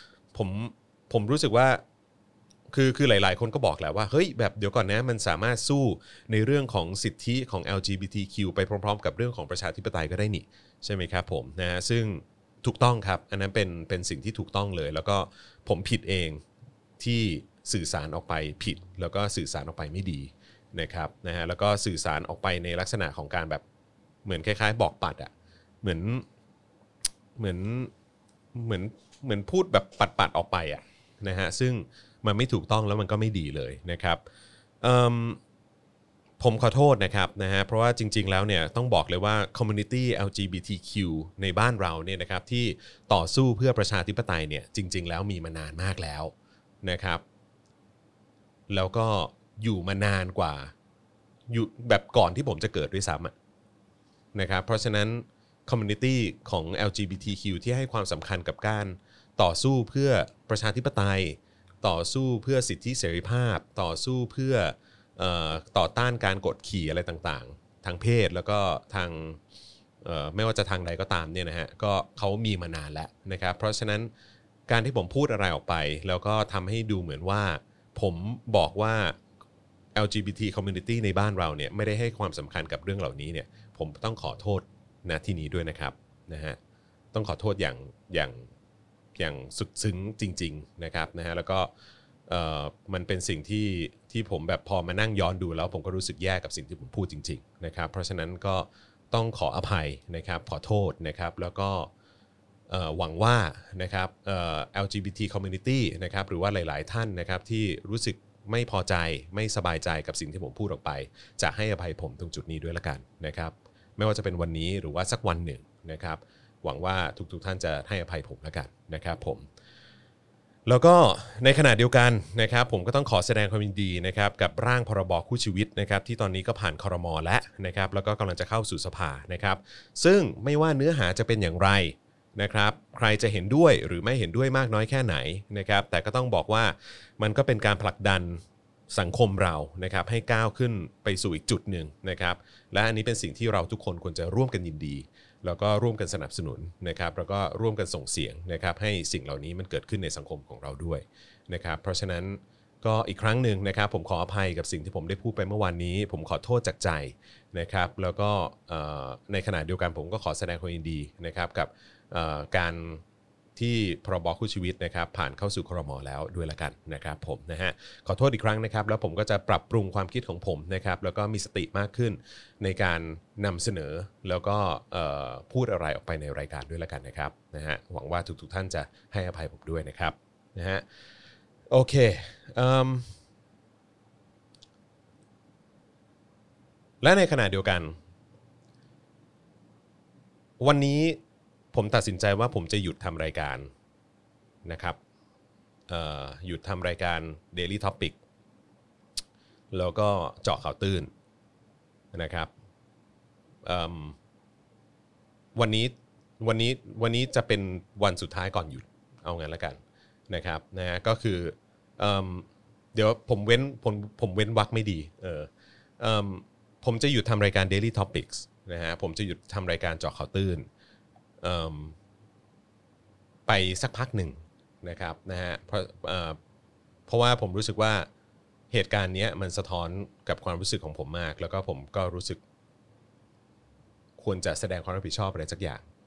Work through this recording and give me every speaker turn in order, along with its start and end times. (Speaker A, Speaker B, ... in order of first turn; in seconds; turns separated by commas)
Speaker A: 0.3-1.8, Speaker A: 2.7-16.4, Speaker A: 17.0-23.6, Speaker A: 24.2-25.3, Speaker A: 25.8-26.2, Speaker A: 27.4-27.9, Speaker A: 28.5-34.2, Speaker A: 34.8-35.4, Speaker A: 36.4-46.3, Speaker A: 46.8-47.2, Speaker A: 48.7-50.7, Speaker A: 51.5-53.3, Speaker A: 54.3-69.4, Speaker A: 70.0-74.1, Speaker A: 74.7-79.2, Speaker A: 79.9-86.6, Speaker A: 87.1-88.4, Speaker A: 89.2-91.7, Speaker A: 92.3-101.9, Speaker A: 102.7-119.4, Speaker A: 120.7-163.0, Speaker A: 163.6-180.8, Speaker A: 181.7-183.1, Speaker A: 187.0-188.0, Speaker A: 190.6-191.2, Speaker A: 191.7-193.7, Speaker A: 194.6-195.0, Speaker A: 195.9-198.2, Speaker A: 199.7-201.1, Speaker A: 202.1-202.5, Speaker A: 203.6-204.2, Speaker A: 205.5-220.6, Speaker A: 221.4-221.9, Speaker A: 223.5-226.4, Speaker A: 227.1-228.1, Speaker A: 228.7-232.4, Speaker A: 234.2-235.8